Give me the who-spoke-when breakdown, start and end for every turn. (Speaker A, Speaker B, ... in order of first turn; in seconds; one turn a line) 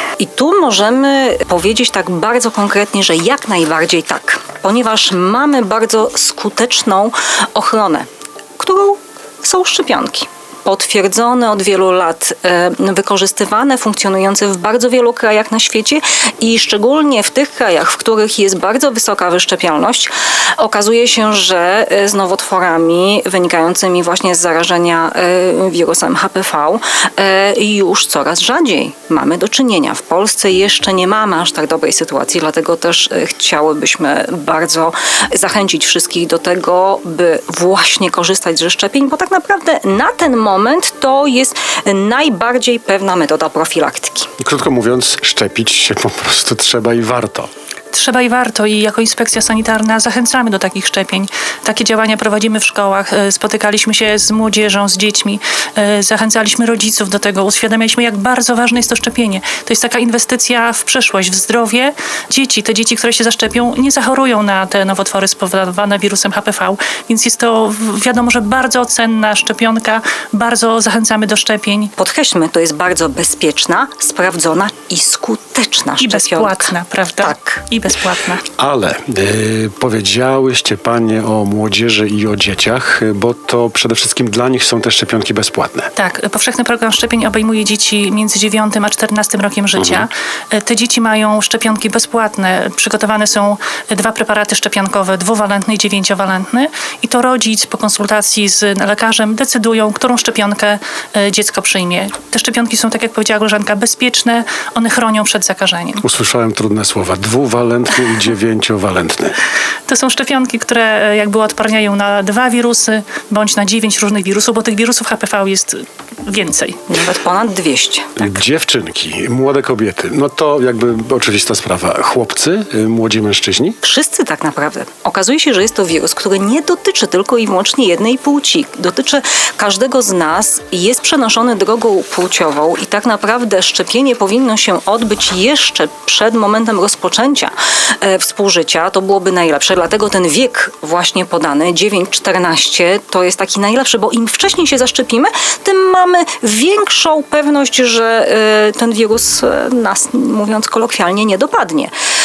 Speaker A: 0.2-8.1
Speaker A: 8.6-44.3
Speaker B: 44.4-47.5
Speaker C: 47.9-71.9
Speaker A: 72.0-77.7
Speaker C: 76.0-78.4
Speaker B: 78.6-85.9
Speaker C: 86.0-106.0
Speaker B: 89.8-90.0
Speaker B: 106.0-109.4
Speaker C: 109.9-116.8
Speaker A: 116.9-118.2
Speaker B: 118.2-123.8
Speaker A: 123.8-151.9